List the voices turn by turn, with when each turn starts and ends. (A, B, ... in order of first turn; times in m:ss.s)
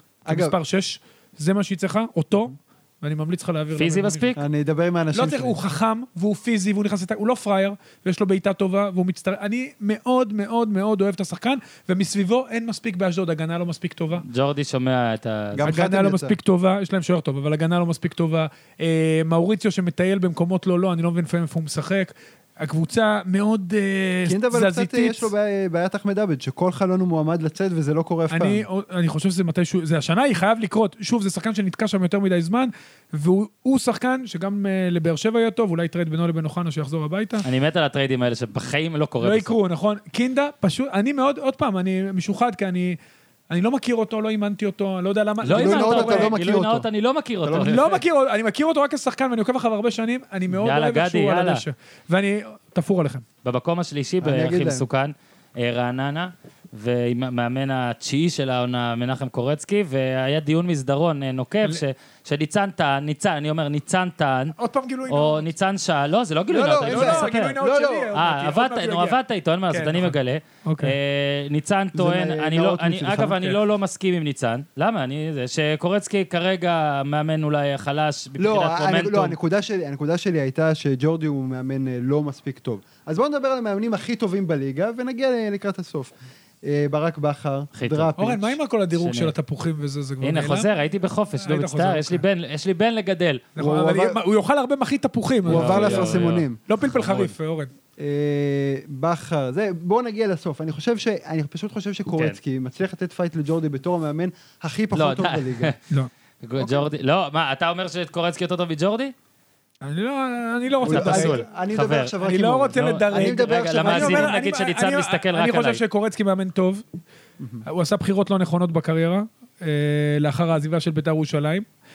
0:00.3-0:00.6 A
0:00.3-0:04.4 B
0:03.7-0:04.4 C
0:04.4-0:05.6 A
0:05.1-0:14.2 B
0:14.2-0:15.6 C
0:15.5-0:16.4 A
0:15.6-0:25.3 B
0:24.3-0:28.6 A
0:28.3-0:37.4 B
0:37.4-0:39.5 C
0:39.2-0:43.0 B
0:43.5-0:46.3 B
0:45.4-0:48.0 C
0:45.5-0:46.9 A
0:47.4-0:48.0 A
0:47.5-0:53.2 B
0:50.6-0:51.6 C
0:53.4-1:04.6 C
0:54.2-0:54.9 A
1:04.6-1:05.5 B
1:05.1-1:07.5 C
1:06.5-1:08.1 A
1:06.8-1:09.2 B
1:08.1-1:19.4 C
1:09.7-1:11.0 B
1:12.0-1:13.6 A
1:18.4-1:28.6 A
1:27.7-1:28.1 C
1:28.2-1:30.7 B
1:29.0-1:29.3 C
1:30.2-1:33.4 C
1:31.3-1:32.2 B
1:33.6-1:37.7 B
1:33.6-1:34.2 A
1:35.5-1:36.6 A
1:35.5-1:37.3 C
1:38.0-1:45.7 A
1:44.9-1:45.8 C
1:46.4-1:49.1 C
1:46.6-1:46.9 A
1:49.8-1:51.4 B
1:50.8-1:54.3 A
1:50.8-1:52.1 C
1:52.2-1:56.8 B
1:52.7-1:55.8 C
1:57.4-1:57.6 A
1:57.7-2:01.7 B